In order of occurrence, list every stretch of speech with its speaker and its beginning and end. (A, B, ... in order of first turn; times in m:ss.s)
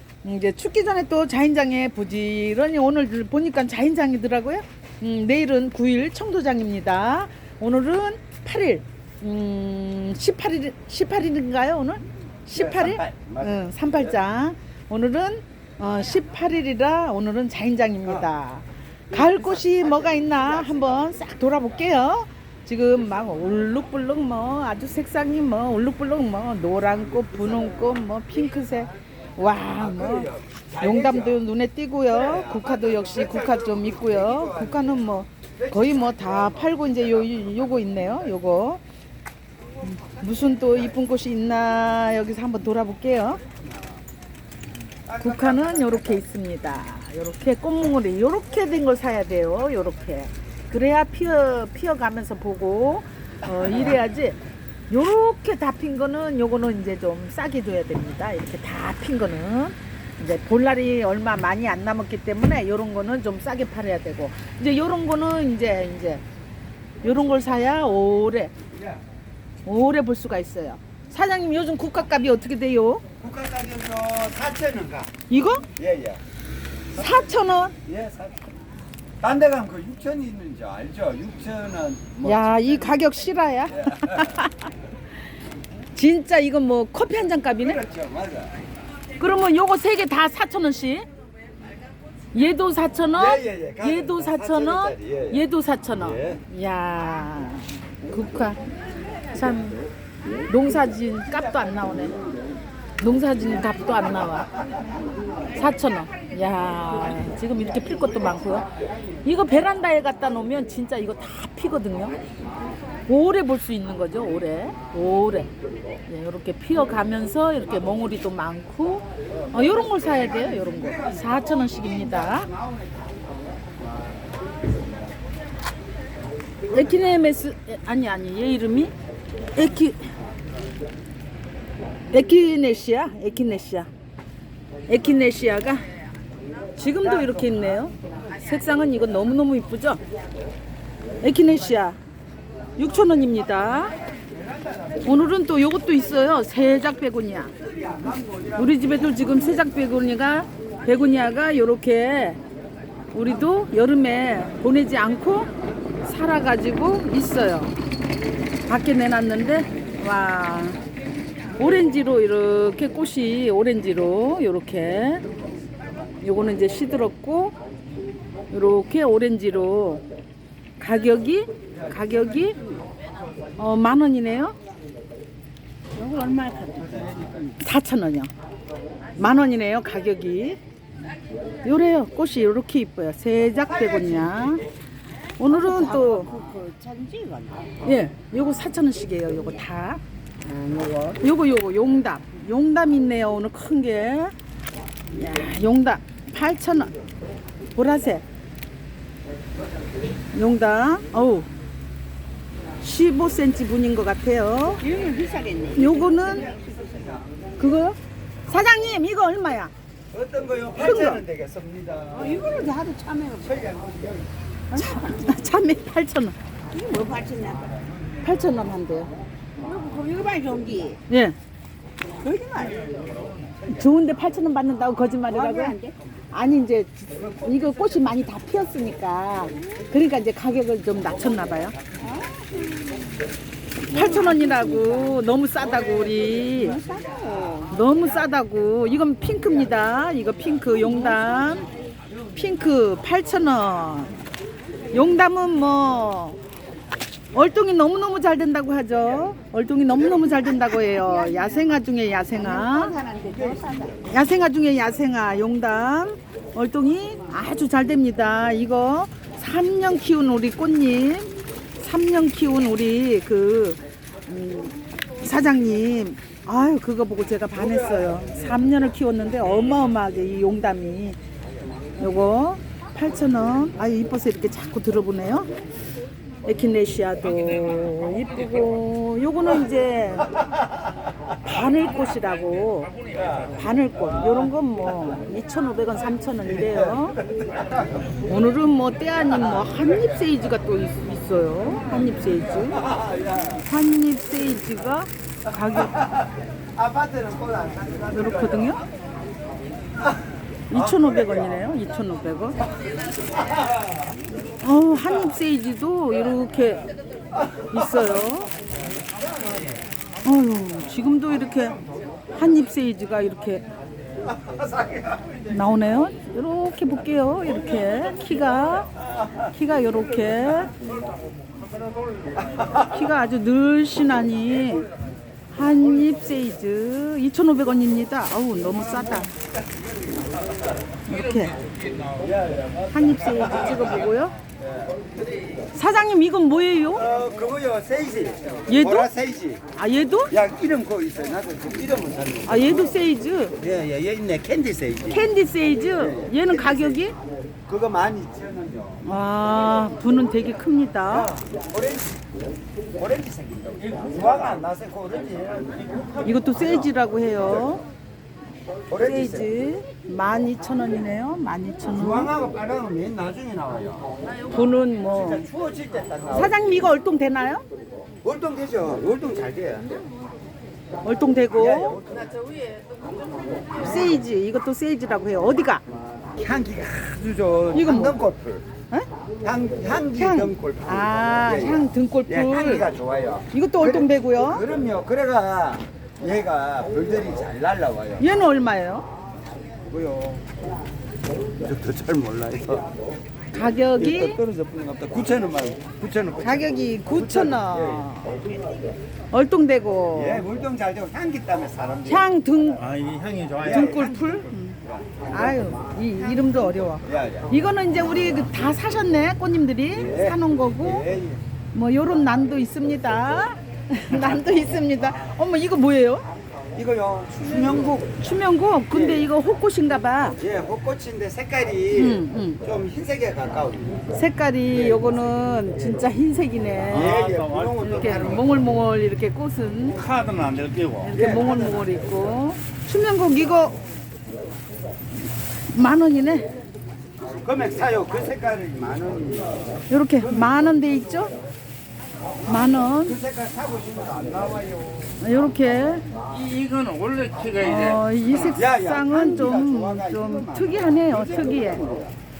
0:00.2-0:38.8 A
0:12.5-0:14.2 B
0:19.1-0:21.2 B
0:29.7-0:31.4 B
0:32.1-0:35.0 B
0:35.6-0:38.2 B
0:40.0-0:43.4 A
0:43.4-0:44.0 B
0:45.0-0:46.2 B
0:45.2-0:54.4 A
0:54.9-1:06.2 A
1:07.0-1:08.5 A
1:08.7-1:09.0 B
1:09.6-1:13.0 A
1:13.2-1:15.1 B
1:15.3-1:15.6 A
1:15.8-1:16.2 B
1:16.9-1:17.7 A
1:17.0-1:17.3 B
1:17.8-1:18.5 B
1:19.2-1:23.0 B
1:22.2-1:24.7 A
1:23.7-1:24.4 B
1:25.9-1:27.8 A
1:27.6-1:28.6 B
1:29.2-1:31.1 A
1:32.3-1:38.6 A
1:33.1-1:35.4 B
1:35.9-1:36.4 B
1:39.3-1:39.8 A
1:40.5-1:42.2 A
1:41.7-1:42.1 B
1:43.0-1:44.5 A
1:45.5-1:48.7 A
1:47.2-1:49.2 B
1:49.2-1:52.2 A
1:53.1-1:55.5 A
1:56.1-2:02.5 A
1:59.4-2:03.3 B
2:06.7-2:08.9 A
2:09.5-2:10.1 A
2:12.1-2:13.9 A
2:14.9-2:15.8 A
2:16.7-2:20.0 A
2:17.0-2:17.9 B
2:21.2-2:22.0 A
2:22.8-2:24.0 A
2:24.1-2:25.2 B
2:25.0-2:27.5 A
2:27.5-2:29.3 B
2:28.6-2:32.4 A
2:33.1-2:35.5 A
2:36.0-2:37.7 A
2:38.7-2:40.8 A
2:41.6-2:45.2 A
2:46.2-2:47.5 A
2:48.5-2:50.0 A
2:50.8-2:52.6 A
2:51.7-2:53.5 B
2:53.6-2:54.6 A
2:55.9-2:57.0 C
2:56.7-2:57.6 B
2:57.6-2:58.3 A
2:59.2-3:00.6 A
3:01.6-3:04.6 A
3:03.6-3:04.6 B
3:05.4-3:06.3 A
3:05.4-3:07.7 C
3:07.8-3:10.0 A
3:10.4-3:11.2 C
3:11.2-3:14.3 A
3:15.1-3:16.9 A
3:17.7-3:18.2 A
3:20.3-3:21.5 A
3:22.8-3:24.8 A
3:24.8-3:26.9 C
3:25.7-3:26.5 A
3:26.0-3:27.3 B
3:27.6-3:29.7 A
3:30.1-3:32.4 B
3:30.8-3:31.2 A
3:32.1-3:33.6 C
3:33.4-3:34.3 B
3:34.7-3:35.3 C
3:34.7-3:36.4 A
3:36.6-3:37.8 C
3:38.2-3:39.1 A
3:39.6-3:41.0 C
3:41.1-3:41.4 A
3:42.2-3:42.8 C
3:42.8-3:43.3 D
3:43.6-3:43.8 B
3:43.7-3:45.8 A
3:45.2-3:46.0 C
3:46.3-3:51.8 A
3:47.2-3:48.2 B
3:52.0-3:53.0 C
3:53.9-3:55.2 C
3:53.9-3:56.8 A
3:55.9-3:56.6 B
3:56.6-3:57.7 C
3:57.7-4:01.7 A
4:00.8-4:01.3 C
4:02.3-4:04.2 A
4:04.9-4:06.4 A
4:07.3-4:12.9 A
4:10.0-4:10.3 B
4:10.9-4:11.7 C
4:12.4-4:14.1 C
4:14.1-4:31.2 A
4:27.5-4:28.7 B
4:32.0-4:35.5 A
4:36.4-4:40.4 A
4:37.5-4:38.2 D
4:40.4-4:41.0 B
4:41.4-4:42.9 A
4:43.0-4:43.5 D
4:43.1-4:44.5 B
4:43.5-4:47.2 A
4:46.4-4:48.3 B
4:48.3-4:52.8 A
4:49.2-4:50.3 B
4:52.5-4:53.6 B
4:53.6-4:56.0 A
4:55.5-4:58.9 B
4:58.1-4:58.8 A
5:00.7-5:02.6 A
5:00.7-5:01.7 B
5:02.8-5:04.2 B
5:04.6-5:06.9 A
5:07.3-5:08.1 B
5:07.7-5:08.5 A
5:09.0-5:09.8 B
5:10.2-5:11.8 A
5:11.4-5:12.2 B
5:12.3-5:13.6 A
5:14.1-5:15.8 B
5:15.5-5:18.9 A
5:17.4-5:19.5 B
5:19.5-5:20.7 A
5:20.2-5:20.7 B
5:21.4-5:22.6 D
5:22.4-5:22.9 B
5:22.8-5:24.9 A
5:25.5-5:29.3 A
5:28.9-5:30.8 B
5:31.1-5:31.6 A
5:31.1-5:32.3 D
5:32.2-5:34.1 B
5:32.9-5:34.4 A
5:34.6-5:35.0 B
5:35.7-5:37.0 A
5:36.9-5:39.6 B
5:38.7-5:39.1 A
5:39.8-5:40.3 A
5:40.3-5:42.9 B
5:42.4-5:43.6 A
5:43.6-5:45.3 B
5:45.1-5:47.1 A
5:46.0-5:47.1 B
5:47.7-5:49.0 B
5:49.0-5:51.3 A
5:51.1-5:52.2 B
5:52.9-5:57.8 B
5:56.2-5:57.8 A
5:58.9-5:59.5 B
5:59.0-6:02.3 A
6:01.9-6:04.1 B
6:04.4-6:05.4 A
6:05.1-6:06.6 B
6:06.3-6:07.6 A
6:08.2-6:10.0 B
6:11.0-6:12.0 A
6:11.5-6:14.2 B
6:13.7-6:15.8 A
6:16.4-6:18.6 B
6:17.7-6:18.2 A
6:19.4-6:28.2 B
6:20.2-6:22.9 A
6:23.5-6:24.6 A
6:28.2-6:29.0 A
6:29.9-6:30.4 B
6:31.6-6:32.9 B
6:33.5-6:34.4 A
6:33.9-6:38.1 B
6:36.4-6:38.4 A
6:39.3-6:40.4 A
6:40.1-6:42.3 B
6:42.0-6:42.8 A
6:42.8-6:43.9 D
6:43.6-6:45.7 B
6:43.6-6:51.0 A
6:47.0-6:47.5 B
6:49.9-6:51.4 B
6:51.7-6:56.2 A
6:56.7-6:58.0 B
6:57.5-7:00.4 A
6:58.9-6:59.3 B
7:00.4-7:04.1 B
7:01.9-7:02.6 A
7:04.1-7:07.2 A
7:04.7-7:05.0 B
7:06.9-7:08.5 B
7:06.9-7:08.6 D
7:07.8-7:10.0 A
7:10.0-7:11.2 D
7:11.0-7:13.8 A
7:11.1-7:12.2 B
7:15.7-7:16.5 A
7:17.2-7:20.6 B
7:19.9-7:21.3 A
7:22.4-7:25.2 B
7:22.5-7:23.2 A
7:25.2-7:26.0 A
7:26.3-7:28.0 D
7:27.6-7:31.8 A
7:28.5-7:32.1 B